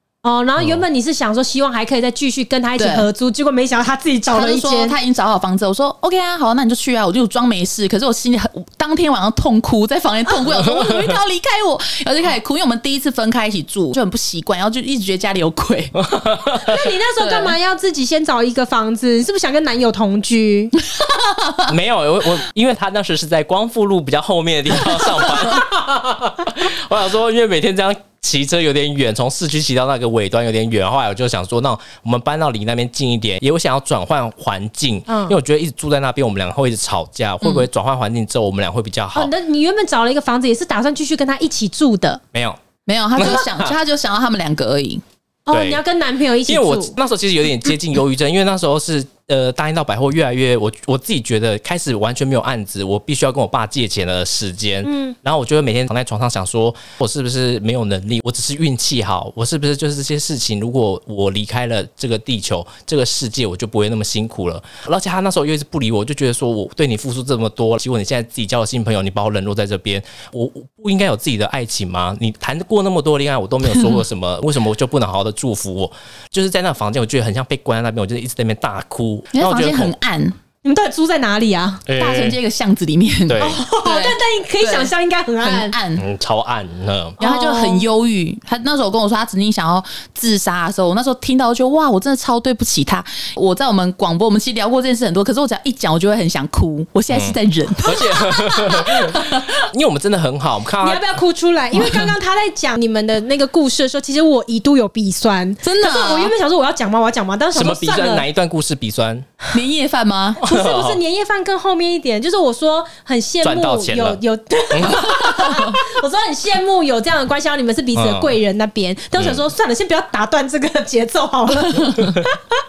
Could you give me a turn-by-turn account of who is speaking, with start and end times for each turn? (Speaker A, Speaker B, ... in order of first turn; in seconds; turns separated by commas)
Speaker A: 0.2-5.0, Speaker B: 0.6-0.8, Speaker C: 2.8-3.1, Speaker C: 4.3-15.9, Speaker B: 10.7-11.1, Speaker B: 15.9-16.8, Speaker A: 16.6-20.7, Speaker C: 17.2-17.6, Speaker C: 21.0-21.7, Speaker B: 21.7-39.3, Speaker A: 35.1-35.4, Speaker A: 39.1-42.2, Speaker B: 42.3-42.6, Speaker C: 42.9-45.0, Speaker B: 43.1-43.7, Speaker A: 45.5-46.9, Speaker B: 45.5-45.8, Speaker B: 46.5-79.9, Speaker A: 54.8-55.1, Speaker C: 73.7-74.0, Speaker C: 79.3-80.3, Speaker A: 80.6-81.8, Speaker B: 81.8-82.4, Speaker C: 81.9-86.0, Speaker B: 83.3-83.6, Speaker A: 83.4-85.8, Speaker B: 86.0-87.2, Speaker A: 87.2-87.9, Speaker C: 87.2-99.6, Speaker B: 97.1-101.0, Speaker A: 100.8-108.2, Speaker C: 101.7-102.1, Speaker C: 105.6-106.3, Speaker B: 107.5-109.2, Speaker C: 109.5-110.4, Speaker B: 110.4-111.0, Speaker A: 110.4-122.3, Speaker B: 113.4-114.2, Speaker B: 114.7-115.6, Speaker C: 115.0-115.8, Speaker B: 117.9-118.3, Speaker B: 119.2-119.5